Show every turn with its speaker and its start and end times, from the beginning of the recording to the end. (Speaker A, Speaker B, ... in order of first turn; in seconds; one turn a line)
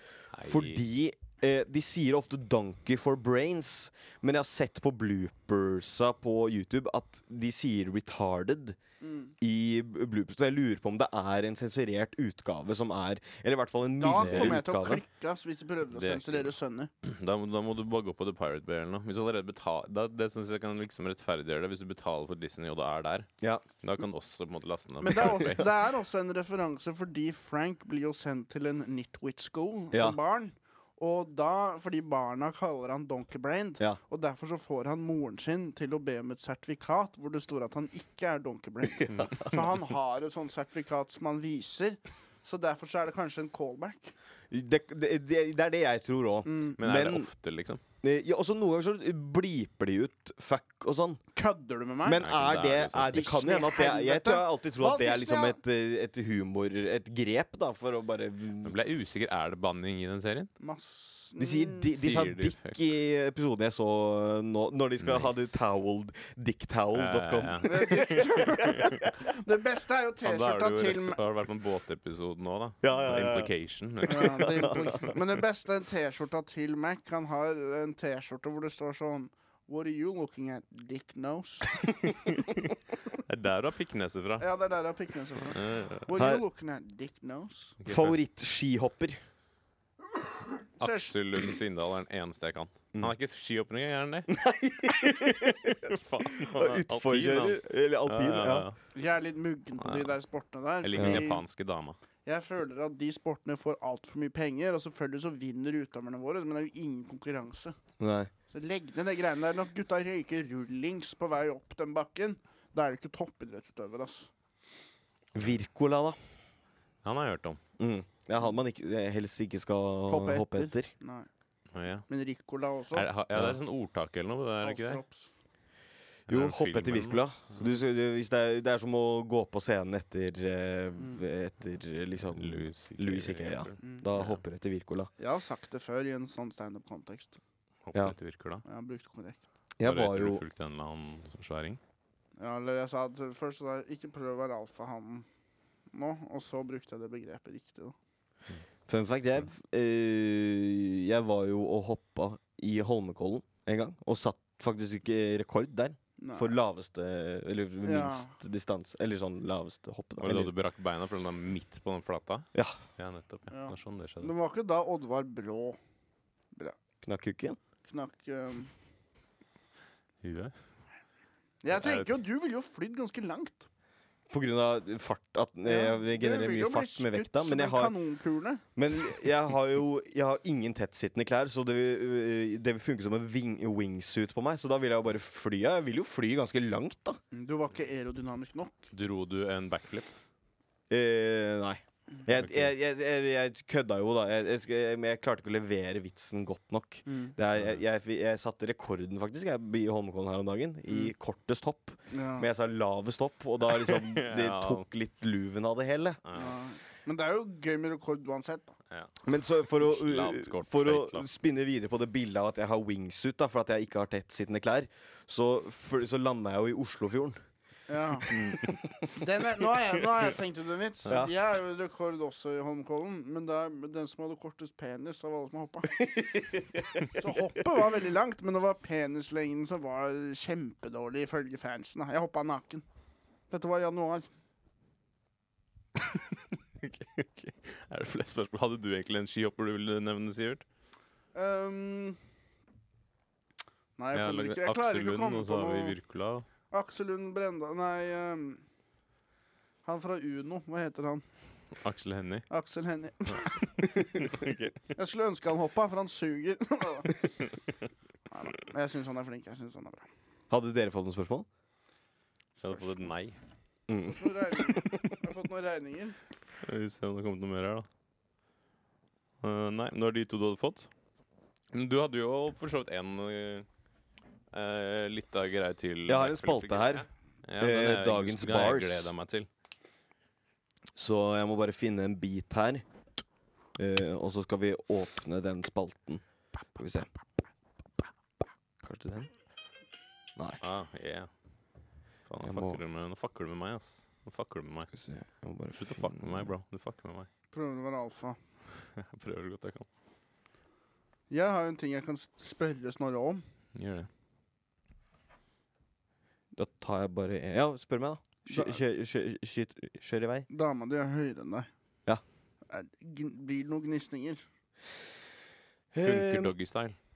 Speaker A: 0.3-0.8
Speaker B: 0.5-8.8
Speaker C: 9.0-9.3
Speaker B: 9.4-15.0
Speaker C: 14.0-16.9
Speaker A: 14.2-14.5
Speaker A: 15.9-16.5
Speaker A: 17.0-23.3
Speaker A: 23.8-25.7
Speaker C: 25.0-44.1
Speaker B: 29.9-30.2
Speaker B: 39.0-39.6
Speaker A: 39.1-39.4
Speaker B: 44.5-47.3
Speaker C: 46.5-46.8
Speaker A: 46.8-47.8
Speaker B: 48.0-51.2
Speaker C: 51.4-52.3
Speaker B: 52.0-58.7
Speaker A: 52.2-53.3
Speaker C: 53.1-55.6
Speaker A: 58.6-60.5
Speaker C: 60.6-62.0
Speaker B: 61.4-69.0
Speaker A: 62.0-62.8
Speaker A: 65.0-65.6
Speaker A: 66.9-69.0
Speaker C: 67.6-71.2
Speaker A: 70.2-75.1
Speaker B: 72.8-73.5
Speaker B: 74.1-74.8
Speaker C: 74.1-81.9
Speaker A: 82.2-82.6
Speaker A: 83.2-84.5
Speaker C: 84.4-87.8
Speaker A: 85.5-86.1
Speaker B: 86.2-86.4
Speaker A: 87.8-88.2
Speaker B: 87.9-89.2
Speaker C: 90.8-91.2
Speaker A: 90.8-94.3
Speaker B: 94.3-98.7
Speaker A: 95.1-98.8
Speaker C: 98.9-101.4
Speaker A: 99.8-100.1
Speaker A: 100.8-102.0
Speaker B: 101.0-101.3
Speaker C: 102.2-107.8
Speaker B: 108.0-108.3
Speaker C: 108.5-114.3
Speaker B: 115.3-116.2
Speaker A: 117.0-117.6
Speaker B: 117.8-120.9
Speaker C: 120.1-121.3
Speaker A: 121.7-122.1
Speaker C: 122.1-123.1
Speaker A: 122.9-125.0
Speaker C: 124.6-125.3
Speaker A: 126.3-127.6
Speaker B: 126.3-135.1
Speaker A: 132.3-134.4
Speaker C: 133.8-134.1
Speaker C: 135.2-137.4
Speaker A: 137.8-138.6
Speaker C: 138.7-139.4
Speaker B: 139.8-140.4
Speaker A: 139.8-141.8
Speaker C: 142.4-145.3
Speaker C: 145.9-147.9
Speaker B: 148.9-160.5
Speaker C: 156.2-156.6
Speaker C: 157.8-158.3
Speaker A: 160.2-164.3
Speaker C: 163.5-165.8
Speaker B: 167.0-167.6
Speaker C: 167.9-168.7
Speaker A: 170.2-170.6
Speaker C: 171.6-173.7
Speaker A: 171.7-172.1
Speaker B: 174.3-177.9
Speaker C: 175.7-178.6
Speaker B: 178.8-187.2
Speaker C: 187.3-188.8
Speaker A: 188.9-190.1
Speaker B: 190.9-206.2
Speaker A: 192.4-192.7
Speaker C: 197.1-197.3
Speaker A: 197.6-197.8
Speaker C: 202.1-202.5
Speaker A: 203.7-204.8
Speaker A: 206.2-206.6
Speaker C: 206.3-208.8
Speaker B: 209.2-217.4
Speaker A: 209.7-211.3
Speaker C: 217.9-218.3
Speaker B: 218.3-219.2
Speaker C: 219.1-226.1
Speaker B: 221.1-221.3
Speaker B: 226.0-227.3
Speaker C: 227.1-232.8
Speaker C: 233.5-234.3
Speaker A: 236.3-240.7
Speaker C: 241.3-242.2
Speaker C: 244.0-246.0
Speaker A: 244.1-246.5
Speaker C: 246.7-248.6
Speaker C: 249.8-251.2
Speaker A: 251.8-252.5
Speaker C: 252.5-253.8
Speaker A: 254.2-254.7
Speaker C: 254.9-257.3
Speaker C: 258.3-260.1
Speaker B: 260.5-261.5
Speaker A: 262.6-263.4
Speaker B: 263.9-265.1
Speaker C: 264.1-266.2
Speaker A: 266.6-267.9
Speaker A: 269.4-270.9
Speaker A: 271.7-273.7
Speaker A: 274.5-279.5
Speaker B: 276.1-277.1
Speaker B: 277.6-279.1
Speaker B: 280.9-282.9
Speaker B: 283.8-286.2
Speaker B: 286.8-287.1
Speaker B: 288.8-289.3
Speaker B: 290.4-290.6
Speaker A: 290.6-291.3
Speaker A: 292.3-294.9
Speaker B: 292.4-292.8
Speaker B: 294.9-296.5
Speaker A: 295.7-297.3
Speaker C: 297.5-298.4
Speaker A: 298.8-299.9
Speaker C: 301.3-303.4
Speaker A: 303.8-304.1
Speaker B: 306.6-310.5
Speaker C: 308.5-308.8
Speaker C: 310.5-311.7
Speaker C: 312.7-314.4
Speaker B: 315.9-316.5
Speaker A: 316.0-317.0